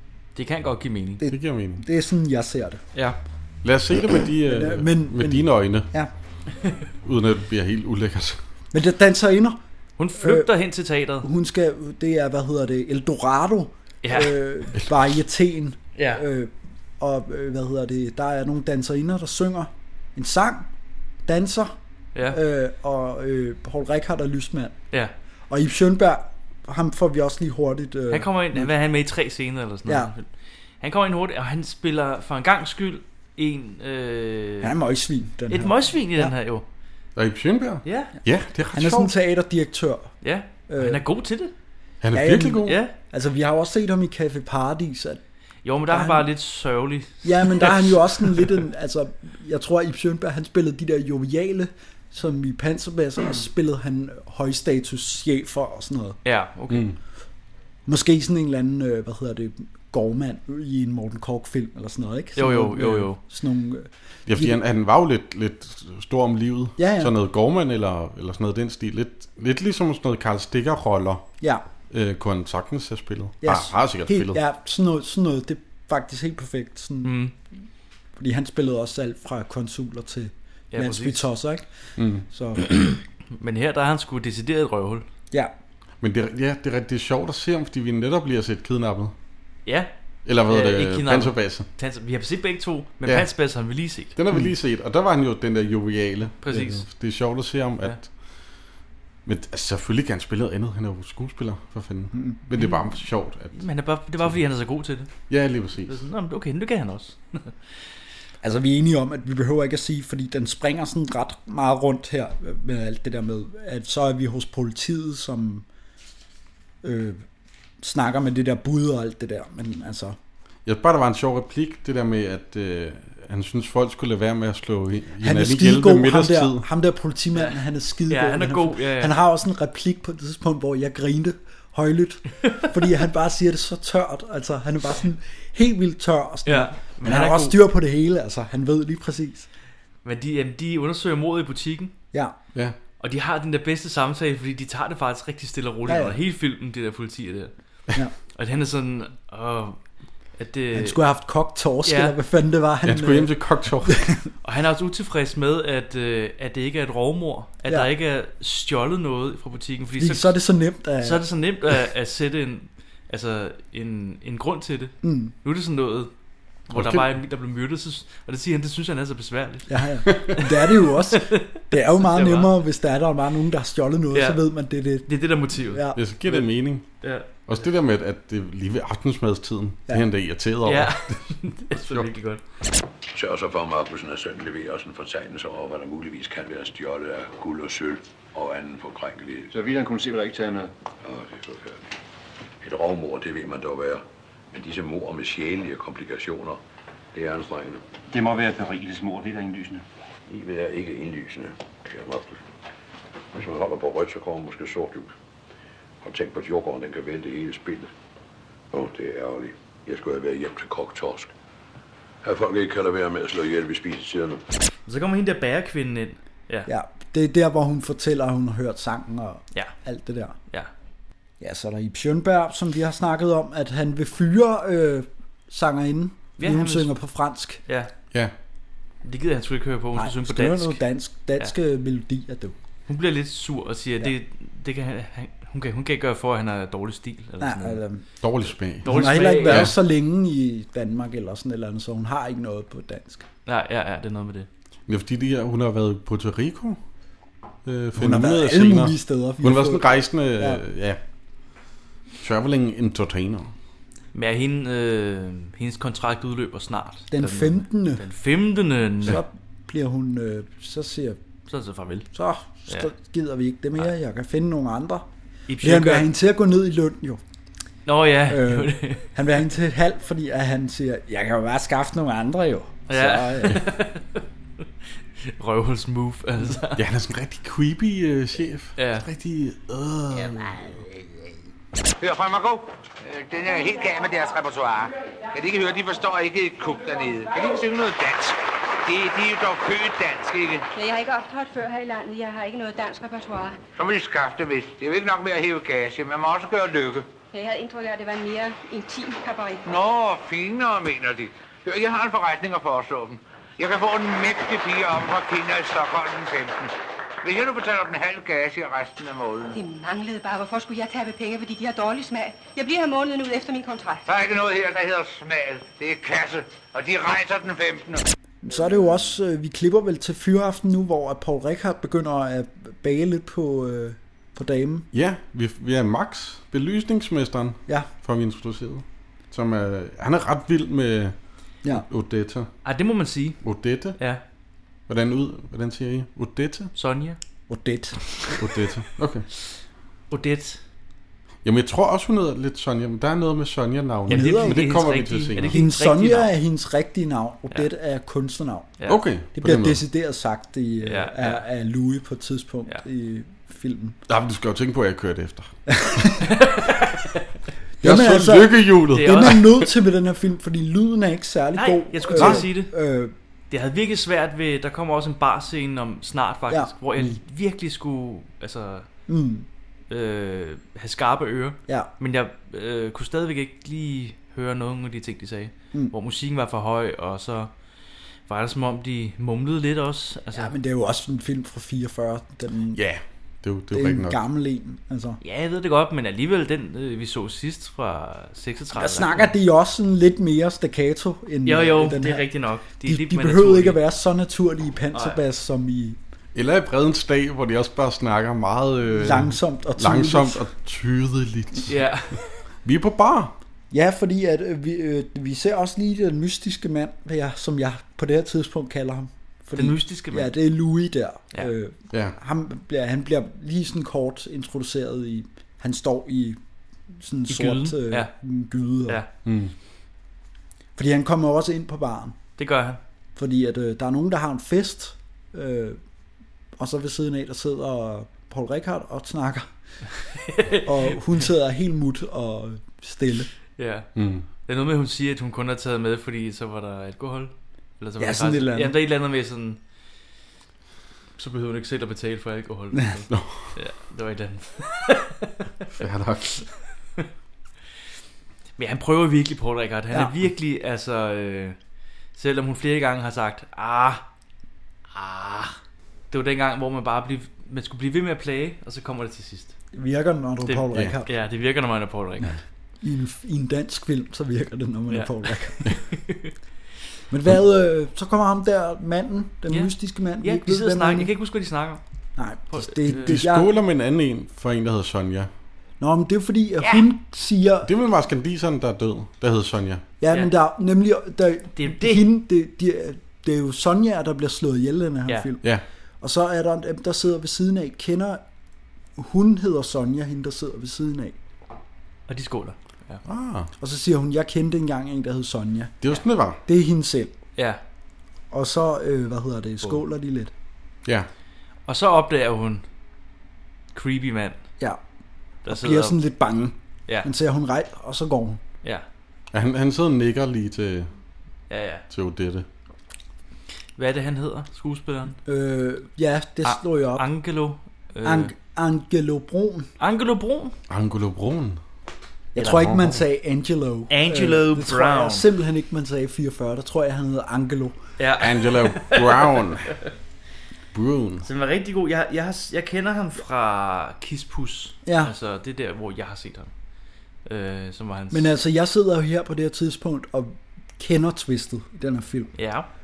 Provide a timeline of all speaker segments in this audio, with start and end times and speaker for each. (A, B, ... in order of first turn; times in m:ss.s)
0:00.3-0:01.2 A
0:01.2-0:02.8 B
0:01.3-0:01.8 C
0:03.6-0:05.9 C
0:04.4-0:06.1 B
0:07.0-0:08.4 C
0:08.7-0:09.6 B
0:10.0-0:11.3 A
0:10.1-0:10.5 B
0:11.2-0:20.7 B
0:14.0-0:14.4 A
0:16.0-0:16.2 A
0:21.2-0:21.7 B
0:22.2-0:24.8 B
0:25.5-0:28.7 B
0:28.1-0:30.3 A
0:29.8-0:30.1 B
0:30.8-0:34.7 A
0:34.6-0:36.3 B
0:35.5-0:36.6 A
0:37.2-0:39.1 C
0:37.8-0:38.1 A
0:38.7-0:40.1 B
0:40.2-0:41.5 A
0:40.7-0:41.0 B
0:42.0-0:42.8 C
0:42.1-0:45.2 B
0:42.6-0:42.9 A
0:45.6-0:48.4 A
0:45.9-0:46.3 B
0:47.2-0:56.2 B
0:56.2-0:56.9 A
0:56.7-0:57.0 C
0:57.8-1:04.6 B
1:02.4-1:03.2 A
1:04.3-1:11.3 C
1:06.8-1:07.1 B
1:11.9-1:14.4 C
1:13.4-1:17.2 B
1:17.0-1:17.3 A
1:18.2-1:21.7 B
1:20.7-1:21.2 A
1:22.0-1:22.2 C
1:22.3-1:22.7 B
1:23.3-1:25.0 A
1:26.0-1:29.1 C
1:30.2-1:31.7 C
1:30.5-1:34.1 A
1:34.1-1:38.1 C
1:36.4-1:36.8 A
1:39.2-1:43.6 C
1:43.5-1:45.1 A
1:45.3-1:46.0 C
1:45.8-1:47.6 A
1:48.4-1:55.6 B
1:56.8-1:57.2 B
1:57.8-2:00.2 B
2:00.6-2:06.6 C
2:05.2-2:19.5 B
2:07.3-2:09.1 A
2:16.4-2:17.6 A
2:20.0-2:21.9 A
2:23.0-2:27.5 A
2:25.9-2:26.2 B
2:28.3-2:29.8 A
2:30.4-2:31.0 A
2:30.7-2:34.2 B
2:31.8-2:32.2 A
2:32.8-2:34.0 C
2:34.4-2:40.3 A
2:40.0-2:41.3 B
2:41.0-2:46.1 A
2:45.0-2:45.3 B
2:46.7-2:52.5 A
2:46.7-2:47.1 C
2:49.7-2:56.0 B
2:54.1-2:54.4 A
2:55.0-2:56.4 A
2:55.9-2:56.9 C
2:57.0-2:57.4 A
2:57.4-3:02.1 C
3:00.6-3:02.4 A
3:03.1-3:09.6 D
3:09.5-3:10.7 E
3:11.0-3:11.9 D
3:12.6-3:16.6 D
3:17.1-3:17.8 D
3:18.1-3:19.8 E
3:20.3-3:22.4 D
3:23.3-3:25.1 D
3:26.0-3:27.9 D
3:28.7-3:31.3 D
3:32.2-3:34.4 D
3:34.8-3:36.7 A
3:36.6-3:40.4 B
3:41.4-3:47.6 B
3:46.4-3:46.9 A
3:49.0-3:50.8 A
3:49.9-3:52.5 B
3:52.9-3:57.8 A
3:57.4-3:58.0 B
3:58.2-3:58.9 C
3:58.8-4:03.2 B
3:58.8-3:59.7 A
3:59.4-3:59.7 C
4:03.4-4:04.5 A
4:04.9-4:06.8 C
4:07.6-4:11.0 C
4:08.0-4:10.6 B
4:12.2-4:13.5 C
4:14.1-4:19.2 A
4:17.1-4:18.0 B
4:19.0-4:21.2 B
4:21.5-4:22.1 A
4:22.1-4:25.1 B
4:25.5-4:26.1 A
4:25.6-4:27.2 B
4:27.8-4:29.1 A
4:28.3-4:33.6 B
4:32.9-4:34.2 A
4:35.2-4:36.8 A
4:36.7-4:40.9 C
4:38.8-4:39.0 A
4:42.0-4:50.7 F
4:50.7-4:53.6 G
4:53.8-4:57.1 F
4:57.3-4:59.6 G
4:59.6-5:09.6 F
5:09.5-5:14.0 G
5:14.0-5:18.0 F
5:18.4-5:24.9 B
5:24.9-5:31.1 C
5:31.8-5:32.5 C
5:32.6-5:33.4 A
5:33.4-5:34.0 C
5:34.0-5:34.2 A
5:34.9-5:36.7 C
5:36.7-5:37.2 A
5:37.5-5:38.0 B
5:38.4-5:39.2 C
5:40.1-5:40.6 A
5:41.4-5:45.6 C
5:44.1-5:44.7 B
5:44.1-5:46.3 A
5:45.4-5:48.8 B
5:48.9-5:49.8 C
5:49.3-5:54.0 B
5:50.8-5:51.4 A
5:54.1-5:56.1 C
5:55.7-5:56.1 B
5:56.2-5:57.2 A
5:57.8-6:03.1 B
5:57.8-5:59.6 C
5:58.9-5:59.4 A
6:01.5-6:02.7 A
6:02.2-6:02.4 C
6:03.5-6:08.9 A
6:09.1-6:09.5 B
6:09.9-6:17.5 A
6:18.3-6:20.5 A
6:20.3-6:22.8 B
6:22.7-6:24.2 C
6:23.7-6:25.2 B
6:25.2-6:29.3 A
6:28.7-6:36.0 B
6:31.4-6:33.8 A
6:34.9-6:35.2 A
6:36.3-6:41.8 C
6:38.9-6:40.4 B
6:41.7-6:42.3 A
6:42.6-6:43.3 C
6:43.7-6:56.4 B
6:49.5-6:50.3 A
6:56.9-6:59.0 B
6:57.3-6:58.1 A
6:59.2-6:59.5 C
7:00.8-7:02.2 B
7:02.4-7:02.8 A
7:03.2-7:05.8 B
7:06.6-7:09.5 B
7:10.2-7:10.9 A
7:10.6-7:13.3 B
7:13.6-7:13.9 A
7:14.0-7:14.2 C
7:14.4-7:19.6 A
7:18.0-7:18.8 B
7:21.2-7:25.3 A
7:23.1-7:23.5 C
7:25.8-7:26.4 C
7:28.6-7:31.6 A
7:29.9-7:30.2 B
7:32.1-7:34.0 A
7:34.9-7:35.6 A
7:36.1-7:39.5 A
7:39.7-7:41.1 B
7:40.4-7:42.4 A
7:42.8-7:45.6 B
7:44.9-7:46.3 A
7:47.1-7:51.1 B
7:49.5-7:51.8 A
7:52.2-7:53.5 B
7:52.5-7:53.2 A
7:52.9-7:55.3 C
7:55.8-7:57.7 B
7:57.6-7:59.8 C
8:00.0-8:05.4 B
8:01.5-8:02.0 A
8:06.0-8:08.2 B
8:09.0-8:11.2 B
8:12.1-8:13.0 A
8:13.0-8:13.5 C
8:13.6-8:15.8 B
8:15.8-8:16.4 C
8:16.4-8:17.2 B
8:17.4-8:17.6 A
8:18.3-8:20.3 B
8:21.7-8:22.6 A
8:23.7-8:24.4 A
8:25.4-8:26.0 A
8:25.5-8:28.4 B
8:29.3-8:30.9 C
8:31.5-8:31.8 A
8:31.9-8:32.4 C
8:33.8-8:35.2 A
8:35.2-8:37.1 B
8:36.4-8:38.3 A
8:38.0-8:39.7 B
8:39.8-8:40.6 A
8:40.7-8:41.6 C
8:42.3-8:47.8 B
8:42.4-8:42.9 C
8:43.9-8:45.3 A
8:48.0-8:49.4 A
8:48.2-8:49.7 C
8:50.7-8:51.2 C
8:51.2-8:56.5 A
8:54.8-8:55.1 B
8:57.2-8:58.3 A
8:58.1-9:02.3 B
9:02.3-9:02.7 A